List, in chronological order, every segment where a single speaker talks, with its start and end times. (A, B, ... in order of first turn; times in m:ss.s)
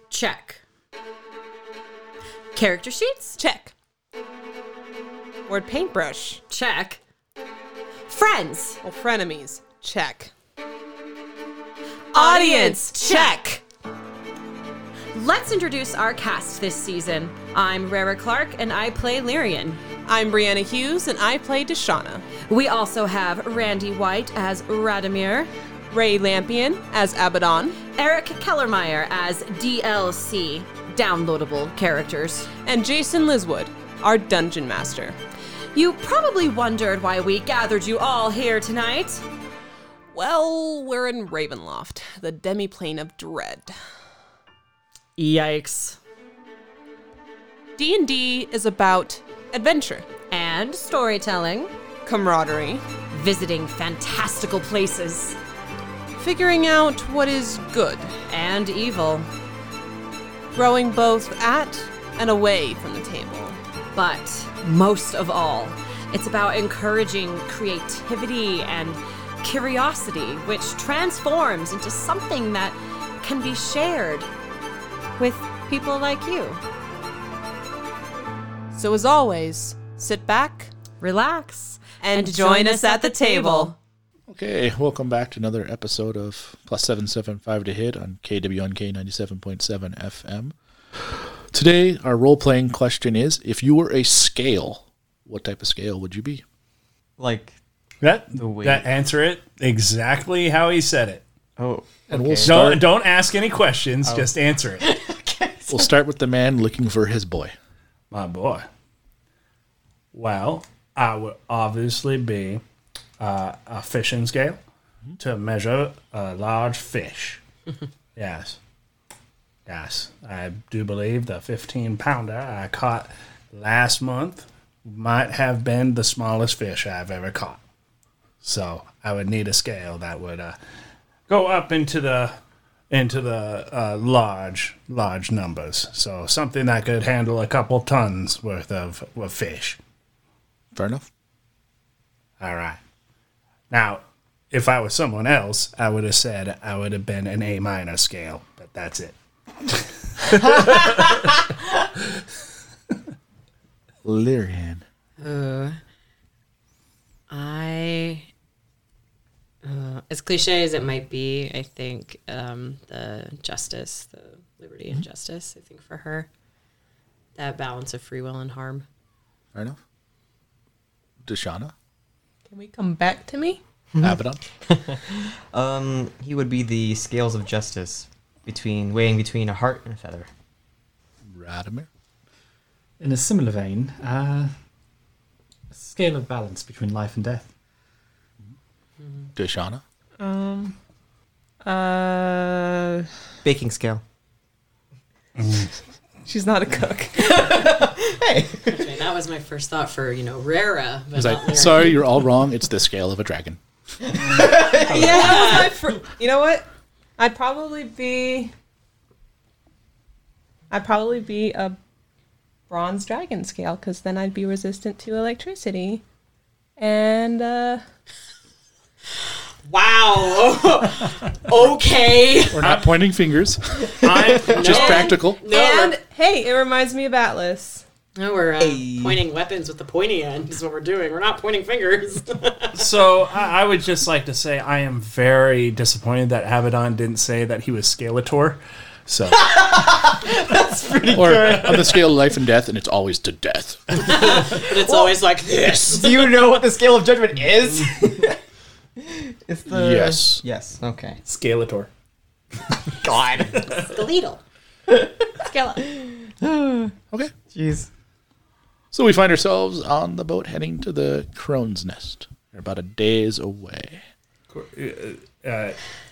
0:00.1-0:00.6 A
0:02.6-0:03.3 B
0:03.4-0:03.7 C
0:05.5-0:06.4 C
0:06.5-0:07.0 A
0:08.1-0:08.8 B
0:08.8-0:10.3 C
0:12.1-0:13.6 C
0:12.1-0:13.4 B
0:15.1-0:19.8 B
0:20.0-0:22.2 C
0:22.5-0:25.5 B
0:25.9-0:27.8 C
0:28.0-0:32.5 B
0:32.6-0:35.2 C
0:35.7-0:39.2 B
0:40.1-0:43.7 C
0:45.2-0:46.0 A
0:47.8-0:50.1 C
0:50.3-0:51.7 B
0:52.0-0:52.8 C
0:53.1-0:55.4 B
0:56.2-0:58.1 C
0:58.3-0:59.2 B
1:00.5-1:03.6 C
1:03.9-1:14.2 B
1:15.2-1:16.6 B
1:18.7-1:20.7 C
1:21.0-1:23.7 B
1:22.0-1:23.7 C
1:24.3-1:30.5 D
1:31.5-1:36.4 D
1:37.2-1:37.5 E
1:38.0-1:41.2 F
1:38.3-1:38.9 E
1:41.6-1:42.7 E
1:42.1-1:42.8 D
1:42.4-1:44.8 F
1:44.0-1:44.3 E
1:45.0-1:45.7 E
1:45.7-1:47.5 D
1:48.1-1:48.7 F
1:50.1-1:52.6 F
1:53.2-1:54.6 F
1:55.2-1:57.4 F
1:58.2-1:58.6 F
1:59.7-2:07.6 F
2:08.4-2:10.5 F
2:11.3-2:12.3 F
2:12.9-2:19.8 F
2:20.7-2:21.0 D
2:22.4-2:22.8 F
2:23.7-2:29.1 F
2:29.6-2:31.3 F
2:34.0-2:34.8 D
2:35.2-2:35.8 A
2:37.3-2:38.3 A
2:39.6-2:46.3 A
2:47.4-2:48.8 A
2:51.2-2:51.7 D
2:52.5-2:53.6 C
2:54.0-2:54.4 D
2:54.7-3:00.3 E
3:01.3-3:01.9 D
3:03.0-3:04.5 G
3:05.7-3:07.5 G
3:09.4-3:09.8 D
3:10.2-3:10.8 C
3:11.6-3:13.1 C
3:13.4-3:14.0 E
3:15.4-3:15.7 F
3:16.2-3:17.7 C
3:17.3-3:18.8 E
3:18.6-3:22.0 A
3:21.1-3:23.6 D
3:24.0-3:25.1 E
3:24.2-3:25.4 F
3:24.9-3:26.6 C
3:24.9-3:25.7 A
3:27.2-3:28.5 C
3:30.7-3:31.8 C
3:32.7-3:36.0 C
3:36.8-3:37.8 C
3:39.7-3:42.6 A
3:42.5-3:45.4 D
3:42.6-3:43.0 F
3:44.0-3:45.1 F
3:44.0-3:44.6 E
3:44.5-3:46.0 A
3:44.6-3:47.8 C
3:48.2-3:52.8 A
3:48.6-3:49.2 E
3:52.8-3:59.5 F
3:59.4-4:02.0 E
4:01.1-4:04.1 D
4:01.3-4:01.8 F
4:04.0-4:06.3 A
4:04.9-4:05.1 E
4:05.9-4:08.4 E
4:09.1-4:11.2 E
4:09.7-4:10.4 D
4:11.2-4:11.9 F
4:13.0-4:13.8 E
4:13.9-4:14.4 A
4:14.9-4:15.2 E
4:15.4-4:15.8 C
4:16.4-4:16.9 E
4:17.5-4:17.9 E
4:18.9-4:24.0 D
4:24.5-4:25.8 F